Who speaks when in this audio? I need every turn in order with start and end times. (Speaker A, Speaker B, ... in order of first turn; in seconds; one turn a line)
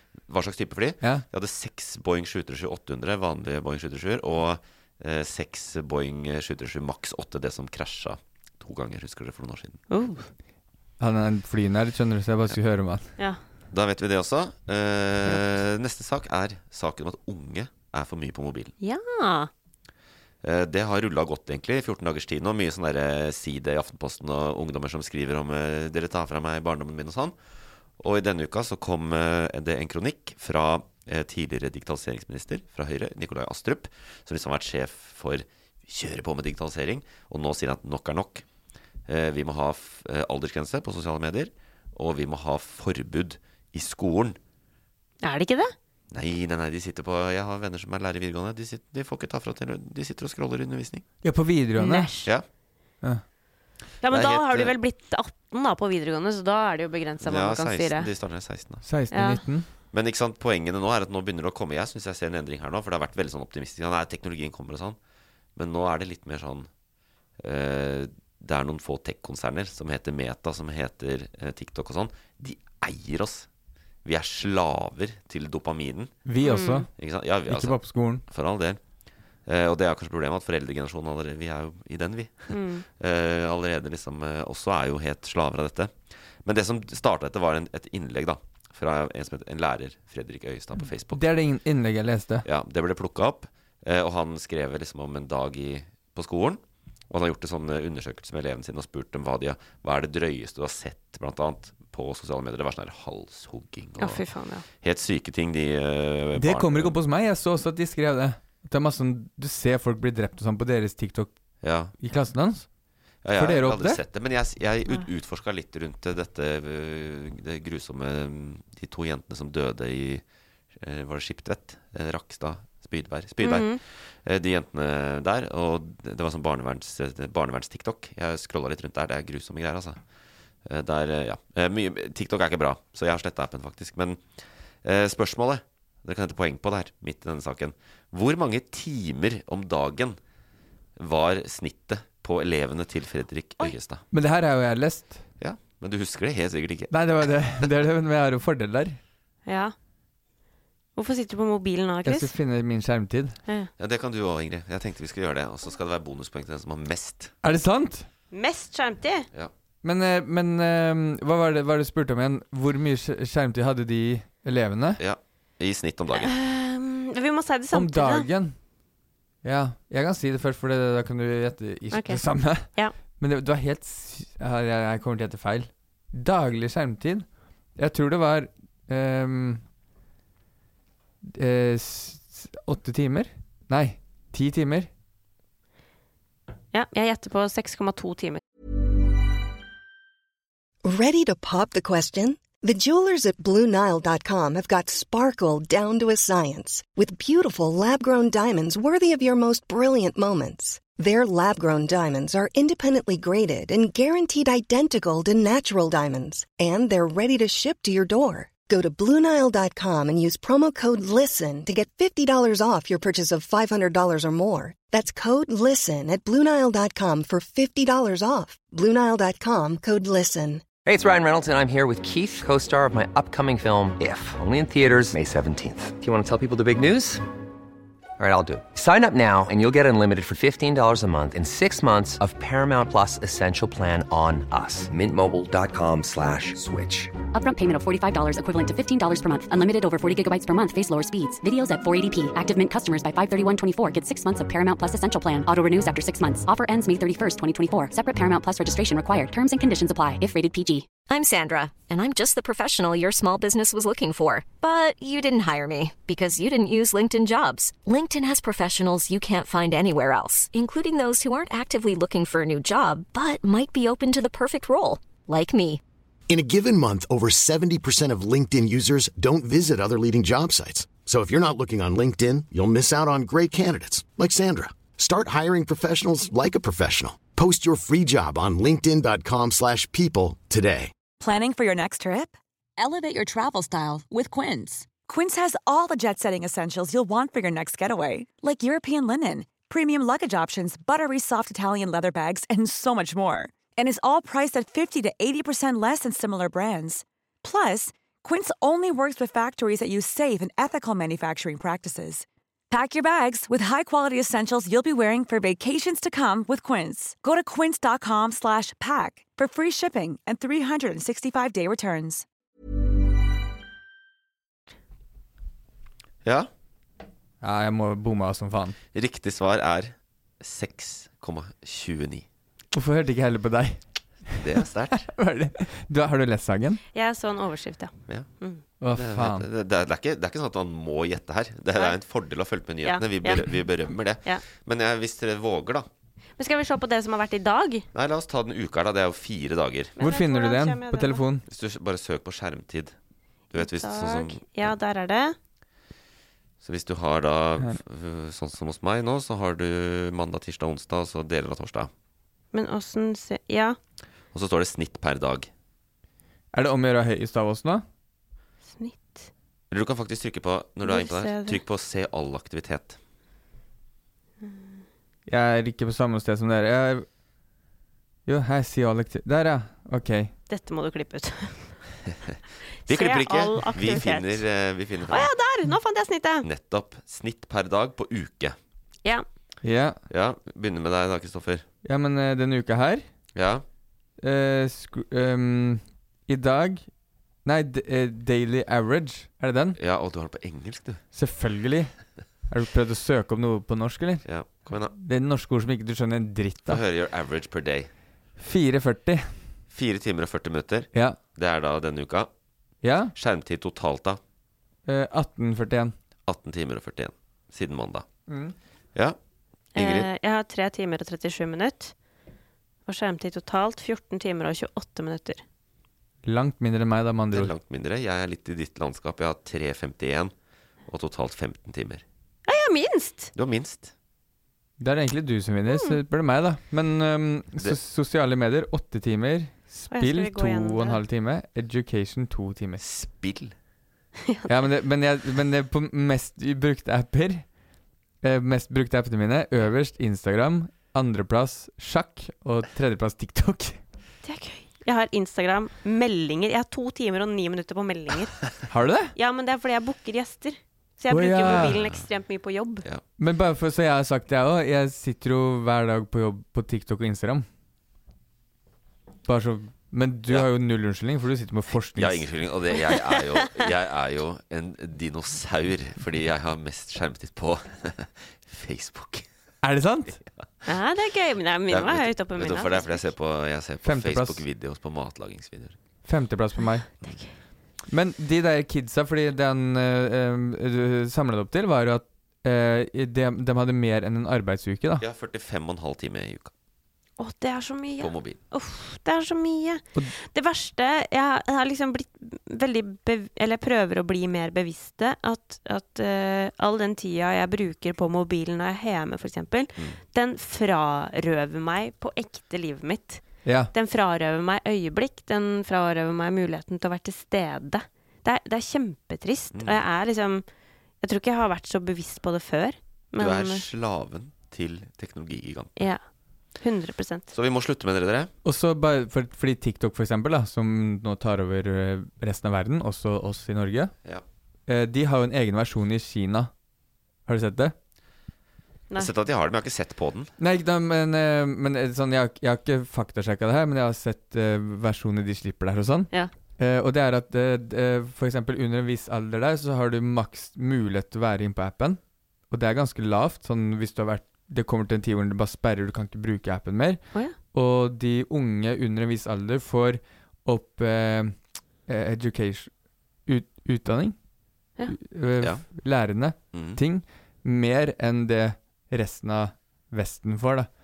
Speaker A: 0.3-9.8
Speaker B: 9.9-10.3
Speaker C: 11.0-13.1
Speaker A: 13.7-18.7
Speaker B: 18.8-19.5
Speaker A: 20.4-27.4
Speaker A: 28.0-38.5
Speaker A: 39.1-44.4
Speaker B: 45.2-45.7
Speaker A: 46.1-51.0
Speaker C: 51.2-52.1
Speaker B: 51.8-52.3
Speaker B: 54.0-58.1
Speaker A: 54.1-54.7
Speaker A: 57.2-58.8
Speaker C: 58.8-59.7
Speaker B: 59.1-59.4
Speaker A: 59.9-65.0
Speaker A: 65.6-66.7
Speaker A: 67.4-73.5
Speaker A: 74.0-76.1
Speaker C: 76.3-76.9
Speaker B: 76.4-76.9
Speaker A: 77.0-78.8
Speaker C: 77.5-78.2
Speaker A: 79.5-91.3
Speaker B: 82.5-82.8
Speaker C: 91.1-92.5
Speaker A: 92.5-104.2
Speaker B: 104.0-104.7
Speaker A: 104.8-107.0
Speaker C: 106.4-111.3
Speaker A: 111.6-111.9
Speaker C: 112.0-112.7
Speaker A: 113.2-120.2
Speaker C: 113.4-114.0
Speaker A: 120.8-130.0
Speaker B: 123.4-123.8
Speaker A: 130.7-134.2
Speaker A: 134.8-140.2
Speaker A: 141.0-144.0
Speaker C: 144.1-145.2
Speaker A: 145.4-146.9
Speaker C: 146.9-149.0
Speaker B: 149.5-149.7
Speaker B: 151.0-152.3
Speaker C: 152.1-153.4
Speaker A: 153.8-157.3
Speaker C: 157.4-158.1
Speaker B: 158.3-159.3
Speaker C: 159.8-165.0
Speaker A: 165.0-166.3
Speaker B: 166.1-168.3
Speaker C: 167.7-168.6
Speaker C: 169.4-177.3
Speaker B: 171.9-172.9
Speaker C: 177.8-179.6
Speaker C: 181.2-184.9
Speaker B: 186.7-188.4
Speaker D: 190.8-220.7
Speaker E: 220.8-227.2
Speaker E: 228.2-237.1
Speaker F: 237.3-250.9
Speaker G: 251.1-265.8
Speaker H: 266.3-280.9
Speaker I: 281.2-312.2
Speaker C: 317.4-318.8
Speaker A: 318.9-322.2
Speaker C: 322.7-324.4
Speaker A: 324.4-325.1
Speaker C: 324.9-326.8
Speaker B: 326.9-328.6
Speaker C: 328.8-329.5
Speaker A: 328.9-335.9
Speaker B: 332.8-333.5
Speaker B: 336.4-337.9
Speaker A: 337.9-339.9
Speaker B: 340.0-341.2
Speaker C: 340.0-341.4
Speaker A: 341.5-342.9
Speaker A: 343.5-344.7
Speaker B: 343.5-345.4
Speaker A: 346.6-351.9
Speaker B: 352.5-353.8
Speaker A: 354.3-355.5
Speaker C: 356.5-357.9
Speaker B: 358.7-359.3
Speaker A: 359.7-363.0
Speaker B: 360.9-361.6
Speaker B: 364.4-364.8
Speaker C: 365.3-367.1
Speaker C: 368.3-370.3
Speaker B: 370.5-371.8
Speaker B: 372.9-374.4
Speaker A: 372.9-375.3
Speaker B: 375.1-376.5
Speaker A: 376.4-378.6
Speaker C: 379.6-380.0
Speaker A: 380.1-381.7
Speaker C: 381.8-383.0
Speaker A: 383.3-383.6
Speaker C: 384.2-386.9
Speaker C: 387.4-389.8
Speaker A: 389.8-391.0
Speaker C: 391.1-391.9
Speaker C: 392.5-396.8
Speaker A: 394.2-394.9
Speaker A: 396.7-397.9
Speaker C: 398.4-399.4
Speaker A: 399.7-402.3
Speaker C: 400.9-401.2
Speaker C: 402.8-403.1
Speaker A: 403.1-404.2
Speaker C: 404.9-405.9
Speaker A: 406.3-408.1
Speaker C: 408.3-408.6
Speaker A: 409.7-410.1
Speaker B: 409.8-411.9
Speaker B: 412.9-415.4
Speaker C: 416.2-417.5
Speaker A: 417.3-420.3
Speaker A: 420.9-422.0
Speaker B: 422.5-423.3
Speaker A: 423.4-423.9
Speaker C: 424.8-432.8
Speaker B: 425.7-426.0
Speaker B: 429.9-431.0
Speaker A: 432.8-433.5
Speaker C: 434.5-437.5
Speaker C: 438.2-443.8
Speaker B: 444.2-448.5
Speaker C: 448.7-449.1
Speaker B: 449.1-452.9
Speaker C: 451.1-451.8
Speaker A: 451.5-452.1
Speaker C: 453.2-457.5
Speaker C: 459.3-462.3
Speaker A: 462.0-469.3
Speaker C: 469.6-470.2
Speaker B: 470.7-473.1
Speaker A: 471.7-475.8
Speaker C: 473.8-474.4
Speaker C: 476.1-476.9
Speaker B: 477.0-477.3
Speaker C: 477.9-485.1
Speaker A: 485.0-486.5
Speaker B: 487.2-510.4
Speaker A: 488.0-488.4
Speaker C: 503.4-503.7
Speaker B: 511.0-513.7
Speaker A: 513.2-515.9
Speaker B: 515.8-516.0
Speaker B: 516.6-517.3
Speaker A: 517.3-518.3
Speaker C: 518.4-523.9
Speaker C: 524.7-526.5
Speaker C: 527.3-527.8
Speaker A: 529.0-530.3
Speaker C: 530.4-547.0
Speaker C: 547.5-552.7
Speaker C: 553.3-554.2
Speaker C: 554.9-560.7
Speaker A: 555.4-555.6
Speaker A: 556.5-556.8